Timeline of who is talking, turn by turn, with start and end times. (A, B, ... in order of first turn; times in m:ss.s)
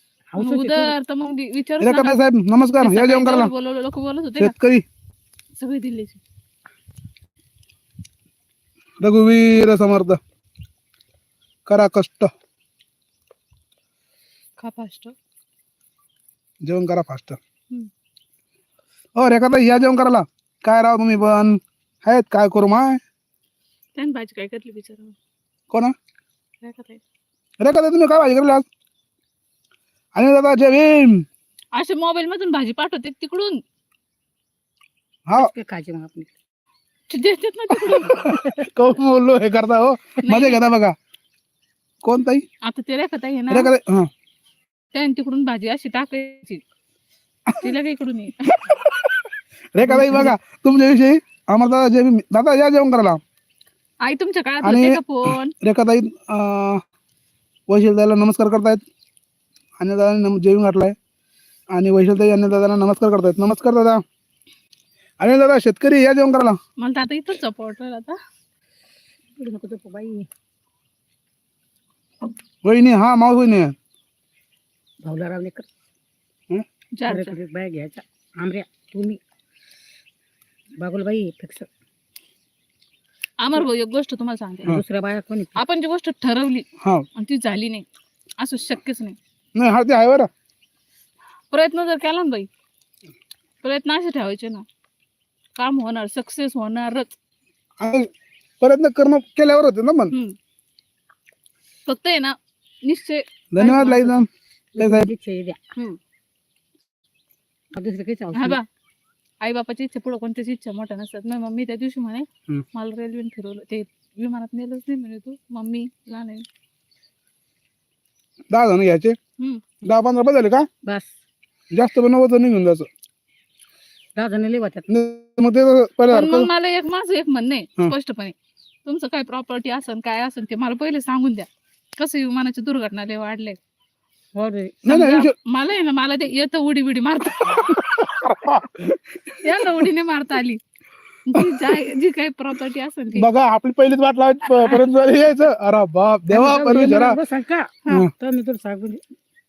0:00.3-0:01.0 A
0:00.4-0:02.2 B
0:01.8-0:03.5 C
0:02.8-0:04.6 B
0:04.4-0:04.8 C
0:05.6-0:06.2 B
0:09.0-0:10.2 C
0:11.7-0:12.3 C
0:14.6-0:15.2 B
0:16.6-0:17.4 C
0:19.2-0:23.0 C
0:24.0-0:25.2 B
0:25.7-0:26.0 C
0:26.6-0:27.0 B
0:27.6-0:28.7 C
0:30.2-0:31.3 C
0:31.8-0:33.6 B
0:35.4-0:36.4 A
0:37.1-0:38.4 B
0:37.9-0:41.0 C
0:40.2-0:40.6 B
0:42.0-0:42.5 C
0:42.6-0:43.7 B
0:43.5-0:44.1 C
0:44.9-0:46.6 B
0:47.5-0:48.6 B
0:48.6-0:53.2 C
0:49.9-0:50.3 B
0:54.0-0:55.5 B
0:54.6-0:56.8 C
0:57.7-0:58.8 C
0:59.8-1:01.0 C
1:01.7-1:04.0 C
1:05.2-1:06.6 C
1:06.8-1:08.2 B
1:09.4-1:10.3 A
1:12.6-1:13.8 C
1:15.0-1:15.7 A
1:16.9-1:17.4 B
1:17.1-1:19.2 A
1:20.8-1:21.7 A
1:23.4-1:24.8 B
1:24.6-1:25.6 A
1:25.6-1:27.8 B
1:26.8-1:27.1 C
1:28.4-1:29.2 B
1:29.6-1:30.3 C
1:31.5-1:32.5 B
1:33.6-1:34.6 B
1:35.6-1:37.2 B
1:37.8-1:38.1 C
1:38.6-1:40.1 C
1:41.9-1:44.2 B
1:43.5-1:45.1 C
1:44.8-1:45.6 A
1:47.7-1:48.6 A
1:48.3-1:48.6 B
1:49.4-1:56.4 B
1:58.5-1:59.2 C
1:59.8-2:00.7 C
2:00.8-2:01.1 A
2:01.7-2:02.9 C
2:04.2-2:04.9 A
2:04.9-2:06.5 C
2:06.1-2:13.6 B
2:14.4-2:14.8 A
2:14.8-2:15.3 C
2:14.9-2:17.8 B
2:17.6-2:19.9 C
2:19.4-2:20.6 B
2:21.3-2:23.3 B
2:21.4-2:21.7 C
2:23.2-2:27.2 C
2:26.3-2:29.0 A